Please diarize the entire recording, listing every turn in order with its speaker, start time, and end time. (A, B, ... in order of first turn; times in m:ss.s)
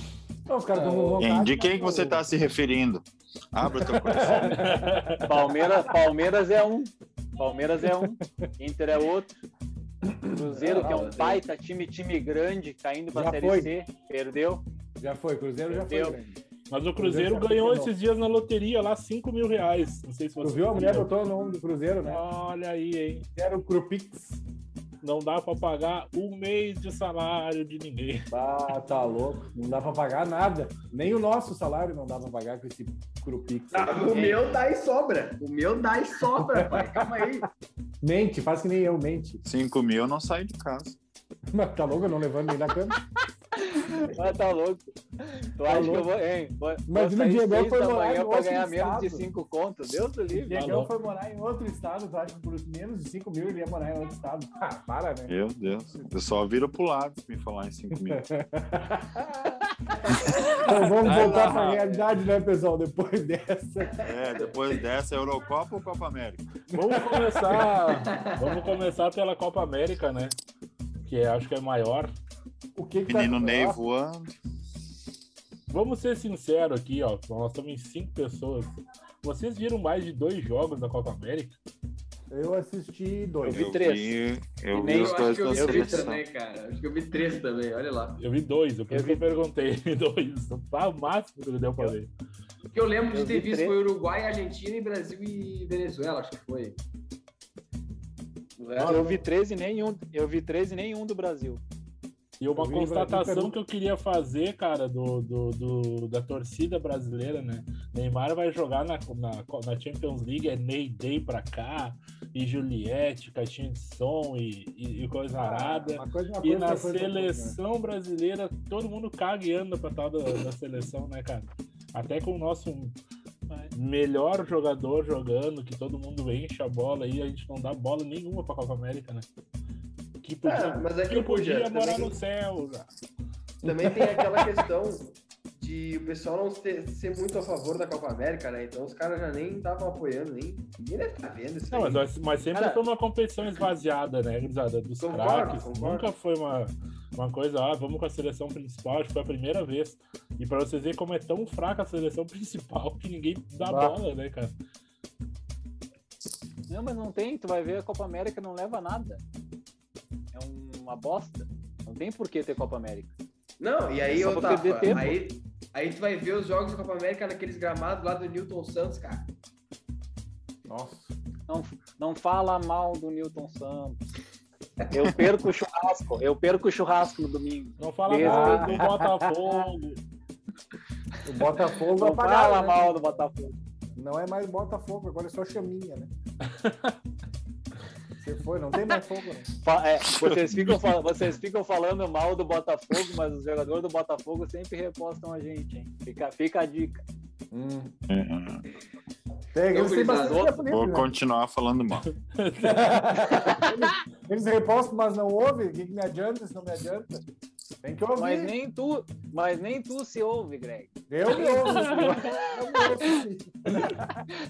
0:00.5-0:02.2 A
0:00.7-0:01.2 B
0:01.2-0:04.8 C
0:03.8-0:05.7 A
0:04.6-0:05.3 D
0:05.2-0:09.3 E
0:10.3-0:14.6 E
0:10.5-0:11.4 B
0:10.6-0:10.9 A
0:13.1-0:13.7 A
0:15.0-0:16.4 A
0:15.7-0:16.2 E
0:16.7-0:21.1 D
0:17.0-0:17.9 A
0:20.4-0:22.2 A
0:22.0-0:23.2 D
0:23.3-0:24.4 A
0:25.0-0:28.3 D
0:28.3-0:34.2 A
0:33.7-0:37.5 B
0:34.1-0:34.4 E
0:36.3-0:37.4 A
0:38.0-0:39.4 A
0:39.4-0:41.0 C
0:41.5-0:43.0 A
0:43.6-0:50.7 E
0:45.6-0:46.1 A
0:46.9-0:49.2 A
0:50.3-0:55.3 A
0:50.5-0:50.9 D
0:55.3-0:58.2 C
0:57.9-0:59.6 A
1:00.1-1:01.9 C
1:00.5-1:04.1 A
1:01.2-1:01.9 E
1:04.0-1:06.4 C
1:04.3-1:04.8 B
1:06.7-1:07.7 A
1:06.7-1:10.3 D
1:07.9-1:08.7 B
1:11.0-1:12.1 D
1:12.8-1:13.8 A
1:13.1-1:14.3 C
1:15.7-1:21.6 D
1:22.3-1:23.7 A
1:23.4-1:24.1 E
1:23.5-1:26.2 C
1:24.7-1:26.1 E
1:24.8-1:28.2 B
1:28.2-1:32.1 D
1:28.9-1:29.2 E
1:32.7-1:36.8 B
1:33.1-1:33.8 E
1:38.6-1:39.2 B
1:38.8-1:41.6 E
1:42.4-2:02.9 D
1:42.5-1:43.6 A
1:55.4-1:57.6 A
2:03.7-2:09.2 D
2:10.2-2:12.9 D
2:10.4-2:12.1 B
2:13.6-2:14.6 A
2:13.6-2:22.1 B
2:21.7-2:34.5 D
2:22.5-2:22.8 E
2:25.0-2:26.0 B
2:33.6-2:34.0 A
2:36.7-2:39.2 E
2:40.3-2:43.1 E
2:43.6-2:49.3 B
2:44.1-2:45.1 E
2:50.7-2:51.1 A
2:51.5-2:54.0 E
2:54.9-2:58.8 E
2:57.8-3:00.0 D
2:58.2-2:59.3 A
3:01.2-3:03.2 A
3:02.0-3:03.6 E
3:04.0-3:06.1 A
3:06.5-3:06.9 D
3:08.2-3:09.4 A
3:09.6-3:17.0 E
3:10.1-3:11.2 C
3:17.5-3:17.9 A
3:18.1-3:18.6 C
3:19.5-3:21.1 A
3:19.7-3:20.6 B
3:20.1-3:20.6 E
3:20.7-3:22.1 C
3:22.2-3:23.3 D
3:22.6-3:27.2 A
3:27.8-3:28.5 A
3:28.2-3:32.8 E
3:31.1-3:34.2 A
3:31.5-3:32.2 D